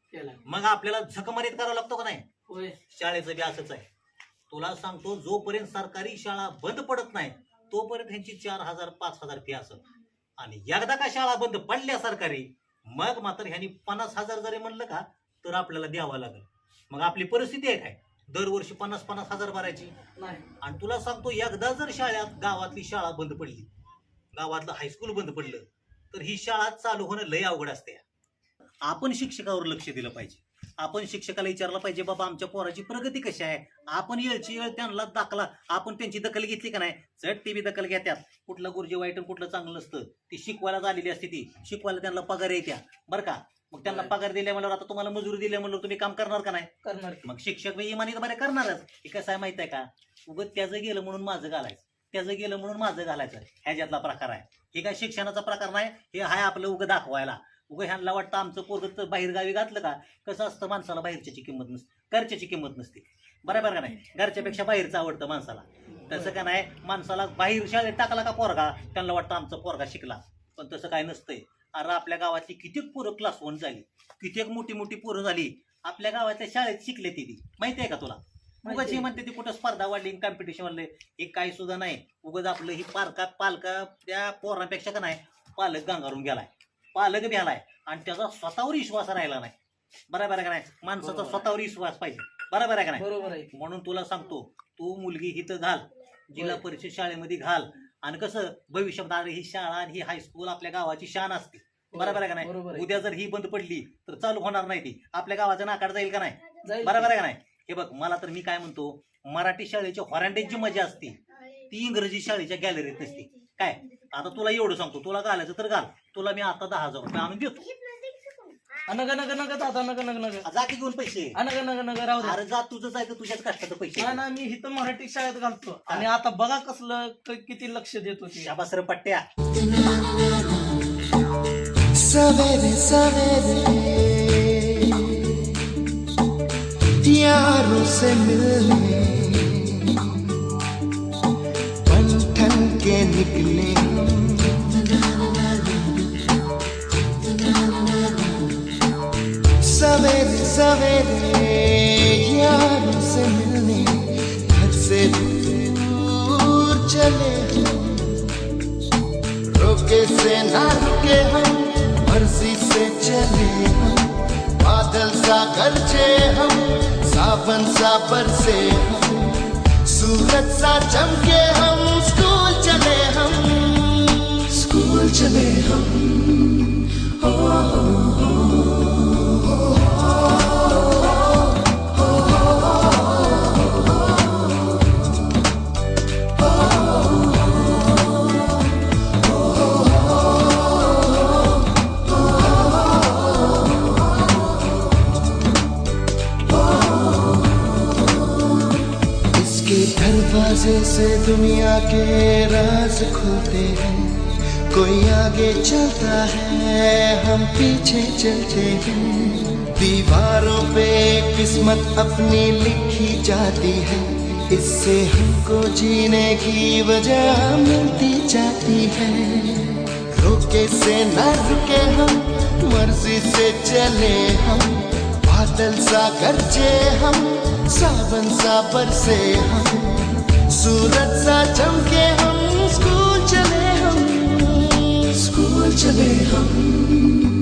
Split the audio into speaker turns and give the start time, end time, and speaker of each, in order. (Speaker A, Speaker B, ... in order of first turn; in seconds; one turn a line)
Speaker A: 0.1-0.4
Speaker B: 0.5-2.2
Speaker A: 2.5-2.8
Speaker B: 2.9-3.8
Speaker B: 4.5-9.8
Speaker B: 10.4-19.9
Speaker A: 20.2-20.4
Speaker B: 20.6-23.7
Speaker B: 24.3-28.0
Speaker B: 28.8-46.7
Speaker A: 43.8-44.1
Speaker A: 46.8-47.2
Speaker B: 47.2-89.5
Speaker A: 78.6-79.1
Speaker B: 90.1-117.7
Speaker A: 91.0-91.4
Speaker A: 93.0-93.5
Speaker A: 96.3-96.6
Speaker A: 101.9-103.0
Speaker A: 106.6-107.1
Speaker A: 118.9-120.4
Speaker B: 120.4-121.4
Speaker A: 121.3-122.4
Speaker B: 122.2-124.2
Speaker A: 124.0-128.5
Speaker B: 128.4-129.2
Speaker C: 129.5-130.9
Speaker C: 131.9-135.8
Speaker C: 137.0-140.3
Speaker C: 141.8-146.3
Speaker C: 147.0-148.7
Speaker C: 149.6-158.4
Speaker C: 159.4-178.3
Speaker C: 199.3-237.2